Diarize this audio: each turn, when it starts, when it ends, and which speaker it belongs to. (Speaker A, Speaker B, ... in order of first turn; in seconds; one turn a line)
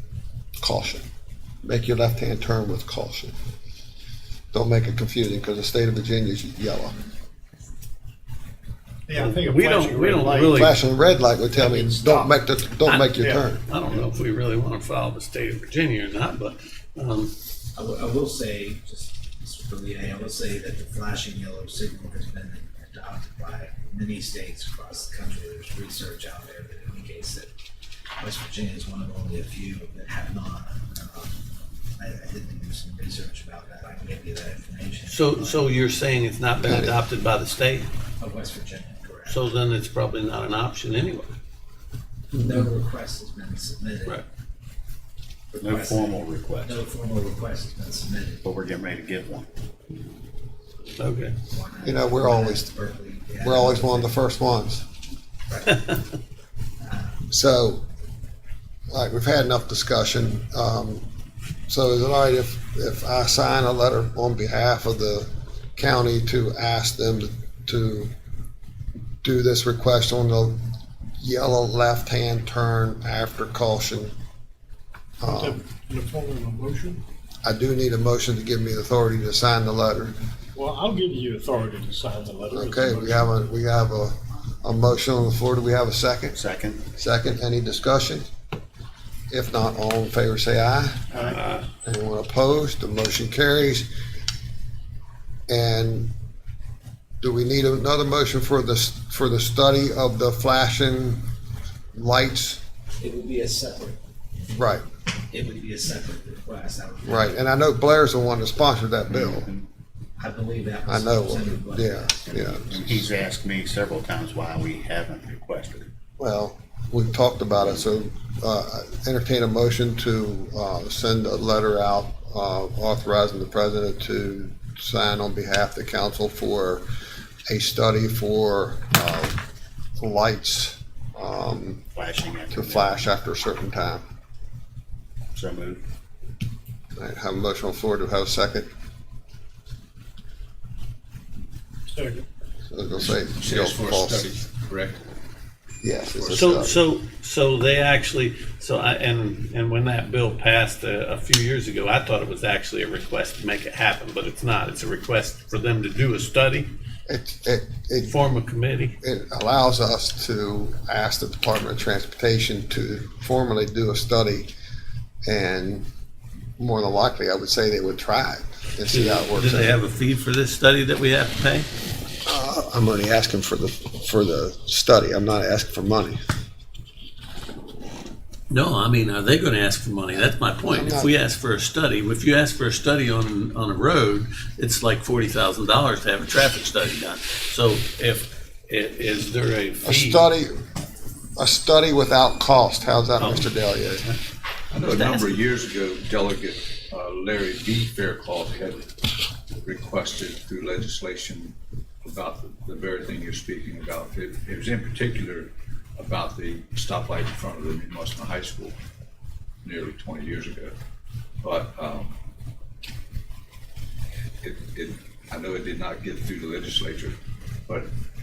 Speaker A: 0.6-1.0
Speaker A: 1.6-3.3
Speaker A: 4.5-7.0
Speaker B: 9.1-10.7
Speaker C: 9.1-10.8
Speaker A: 10.5-13.6
Speaker B: 11.6-12.3
Speaker C: 12.9-17.3
Speaker D: 17.8-27.5
Speaker D: 28.2-31.4
Speaker D: 32.0-35.7
Speaker C: 35.1-37.9
Speaker A: 36.6-37.0
Speaker D: 38.2-39.5
Speaker C: 39.3-41.3
Speaker D: 42.3-44.2
Speaker A: 42.4-42.7
Speaker D: 45.5-48.5
Speaker E: 45.6-46.8
Speaker E: 48.4-49.5
Speaker C: 51.0-51.4
Speaker D: 51.5-54.2
Speaker A: 51.8-52.7
Speaker A: 53.4-54.9
Speaker D: 55.5-56.0
Speaker D: 56.8-57.3
Speaker A: 57.3-57.8
Speaker A: 58.9-61.1
Speaker A: 61.7-68.1
Speaker A: 69.2-70.6
Speaker A: 71.2-74.1
Speaker A: 75.2-75.6
Speaker B: 75.2-77.0
Speaker A: 77.4-80.2
Speaker B: 80.5-83.4
Speaker A: 82.5-86.4
Speaker E: 86.3-86.8
Speaker A: 87.0-88.2
Speaker A: 89.3-93.9
Speaker C: 91.3-91.7
Speaker A: 95.5-96.1
Speaker A: 97.2-101.2
Speaker A: 101.9-102.6
Speaker D: 103.0-104.0
Speaker A: 104.5-104.8
Speaker D: 105.3-107.4
Speaker A: 107.0-109.5
Speaker E: 109.1-109.7
Speaker D: 110.2-113.0
Speaker A: 110.9-112.8
Speaker E: 112.7-115.9
Speaker A: 116.2-126.8
Speaker E: 117.6-117.9
Speaker A: 127.5-129.4
Speaker A: 130.0-131.8
Speaker E: 131.9-133.1
Speaker A: 132.5-134.0
Speaker E: 135.3-135.8
Speaker A: 137.0-138.7
Speaker B: 141.9-142.2
Speaker A: 142.7-144.3
Speaker F: 143.0-145.0
Speaker A: 145.8-146.8
Speaker F: 146.2-146.5
Speaker C: 146.3-156.7
Speaker A: 157.1-158.2
Speaker C: 158.0-159.0
Speaker A: 159.0-164.5
Speaker A: 165.3-165.9
Speaker A: 166.6-169.8
Speaker C: 168.9-171.7
Speaker A: 172.3-176.2
Speaker C: 178.5-190.3
Speaker A: 180.7-181.1
Speaker A: 189.8-190.6
Speaker A: 191.4-194.0
Speaker C: 193.2-194.2
Speaker F: 194.7-198.9
Speaker C: 194.8-195.4
Speaker F: 199.6-208.8
Speaker F: 209.6-210.7
Speaker F: 211.4-212.2
Speaker F: 214.4-217.2